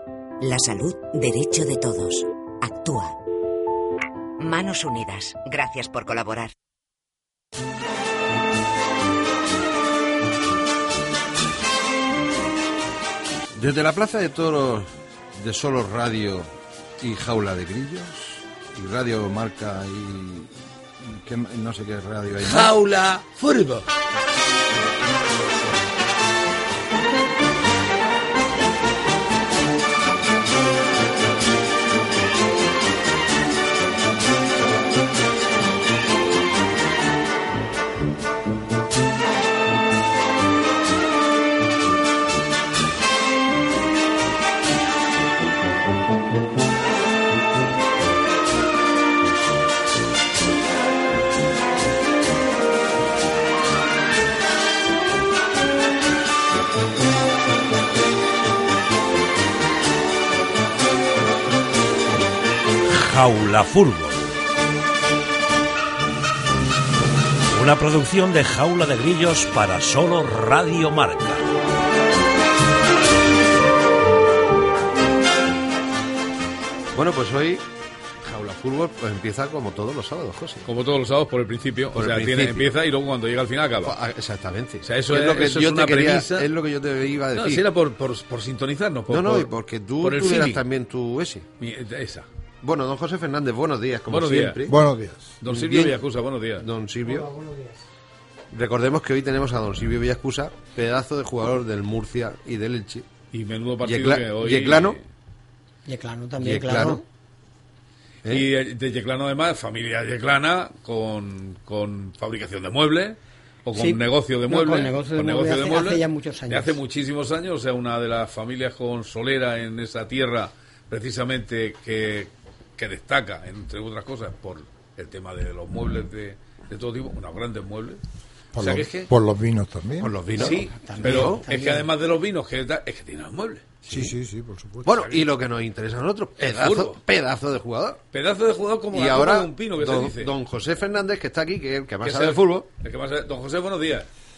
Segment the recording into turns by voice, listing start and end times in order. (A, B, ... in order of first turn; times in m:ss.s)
0:00.4-0:03.2 A
0:04.4-0:06.5 A
0:13.5-0:22.7 B
0:22.4-0:23.8 C
1:02.9-1:04.2 D
1:07.5-1:11.5 D
1:16.9-1:17.6 B
1:18.2-1:20.6 B
1:20.6-1:24.0 C
1:21.9-1:22.7 B
1:23.8-1:27.6 B
1:24.8-1:26.5 C
1:27.3-1:30.6 C
1:29.1-1:31.4 B
1:31.6-1:32.2 C
1:32.6-1:34.7 B
1:34.1-1:34.6 C
1:34.6-1:35.4 E
1:35.4-1:36.6 C
1:35.4-1:36.0 B
1:36.6-1:37.3 B
1:37.0-1:37.8 F
1:38.5-1:43.1 B
1:43.3-1:45.0 C
1:43.8-1:45.0 B
1:45.8-1:47.0 F
1:46.4-1:47.0 B
1:48.2-2:08.0 C
1:53.7-1:56.8 F
2:08.5-2:09.1 C
2:08.5-2:10.2 E
2:10.0-2:11.4 B
2:10.3-2:13.7 C
2:10.7-2:11.9 F
2:13.9-2:15.0 E
2:14.8-2:18.0 B
2:14.9-2:15.2 C
2:16.4-2:17.0 C
2:18.1-2:20.3 C
2:18.9-2:22.6 B
2:22.0-2:24.1 C